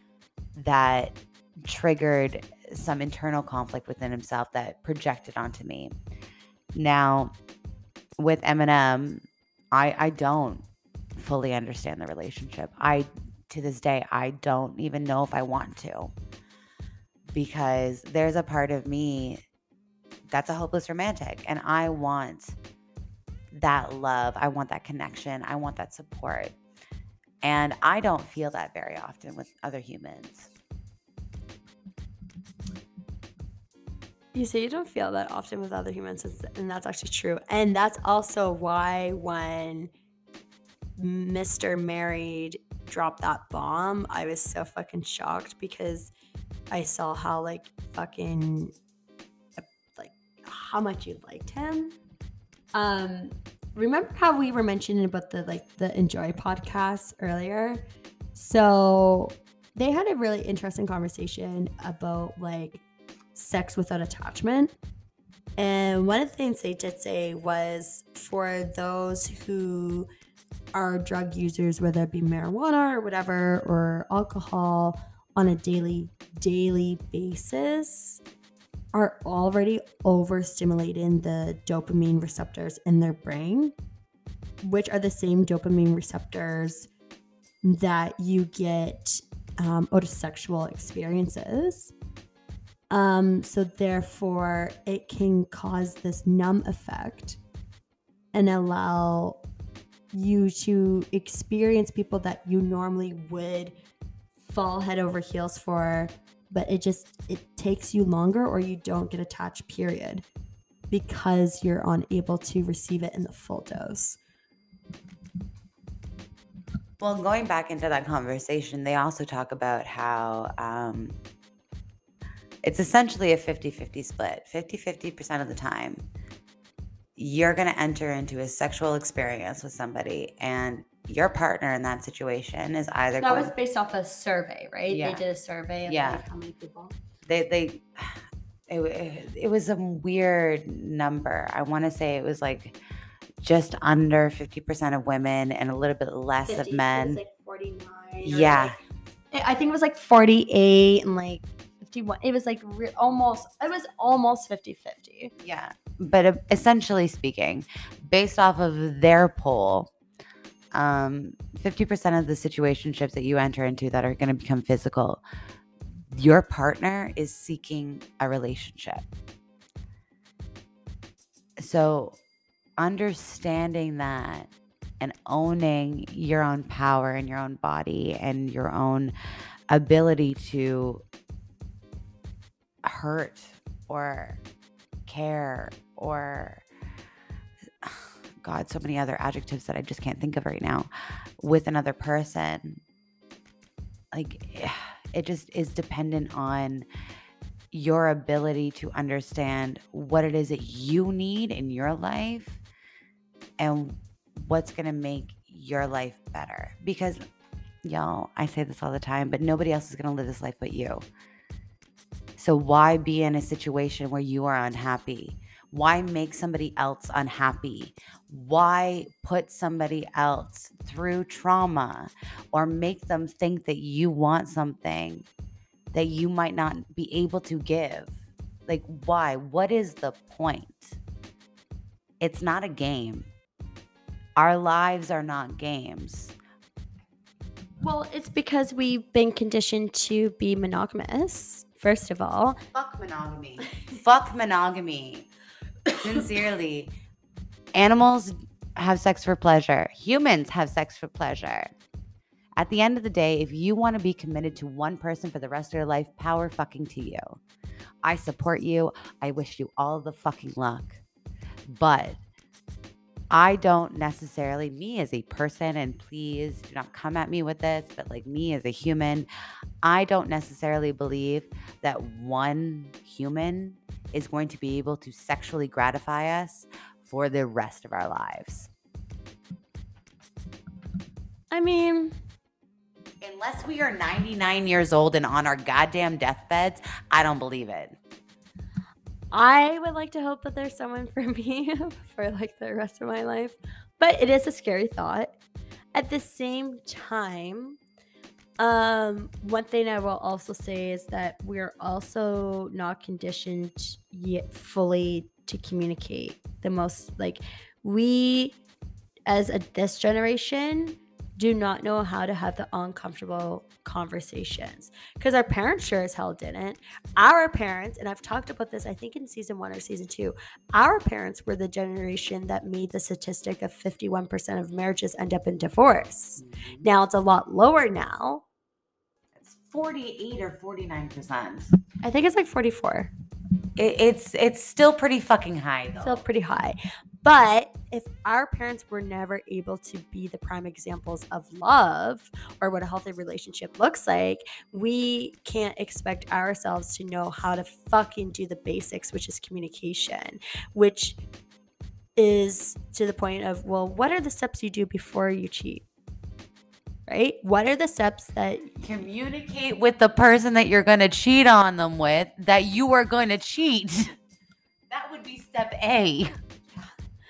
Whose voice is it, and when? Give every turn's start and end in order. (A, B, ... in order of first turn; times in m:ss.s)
0:00.6-0:05.9 A
0:06.8-0:07.3 A
0:08.2-0:10.6 A
0:11.2-0:16.1 A
0:17.3-0:19.4 A
0:20.3-0:22.6 A
0:23.5-0:26.6 A
0:27.4-0:30.5 A
0:34.3-0:39.9 B
0:41.0-0:46.1 B
0:46.7-0:48.7 B
0:49.6-0:52.0 B
0:52.7-0:57.8 B
0:58.4-1:02.8 B
1:03.4-1:04.7 B
1:05.6-1:10.1 B
1:10.7-1:18.2 B
1:18.9-1:23.7 B
1:24.6-1:26.9 B
1:27.6-1:31.9 B
1:32.9-1:37.4 B
1:38.3-1:39.4 B
1:40.1-1:43.7 B
1:44.4-1:50.2 B
1:50.9-1:54.2 B
1:57.0-2:01.2 A
2:02.6-2:06.0 A
2:07.2-2:13.5 A
2:13.2-2:17.0 B
2:14.9-2:15.2 A
2:15.9-2:16.2 A
2:17.3-2:18.1 A
2:18.7-2:22.8 A
2:23.4-2:27.2 A
2:26.5-2:28.8 B
2:28.2-2:28.8 A
2:29.3-2:35.3 B
2:35.4-2:39.9 A
2:40.7-2:45.2 A
2:46.1-2:49.0 A
2:51.6-2:52.2 A
2:52.8-2:59.1 A
2:59.7-3:01.0 A
3:02.8-3:04.4 A
3:05.1-3:06.6 A
3:07.8-3:12.8 A
3:14.1-3:16.9 A
3:17.7-3:22.6 A
3:23.6-3:27.2 A
3:27.8-3:31.1 A
3:32.4-3:45.3 A
3:45.9-3:48.2 A
3:48.7-3:51.0 A
3:52.2-3:53.3 A
3:54.4-3:56.4 A
3:57.8-4:02.6 B
4:02.7-4:05.3 A
4:06.0-4:06.9 A
4:07.8-4:11.7 A
4:12.6-4:17.4 A
4:18.0-4:21.0 A
4:21.7-4:22.2 A
4:23.3-4:29.3 A
4:29.8-4:38.7 A
4:41.5-4:42.1 B
4:43.2-4:48.0 A
4:49.3-4:55.4 B
4:56.0-4:57.8 B
4:58.6-5:08.6 B
5:09.3-5:28.4 B
5:26.4-5:26.9 A
5:29.4-5:31.7 A
5:32.0-5:33.1 B
5:33.8-5:36.2 A
5:36.0-5:51.2 B
5:52.2-5:55.8 B
5:57.1-5:58.7 B
5:58.8-6:04.2 A
6:04.9-6:06.4 A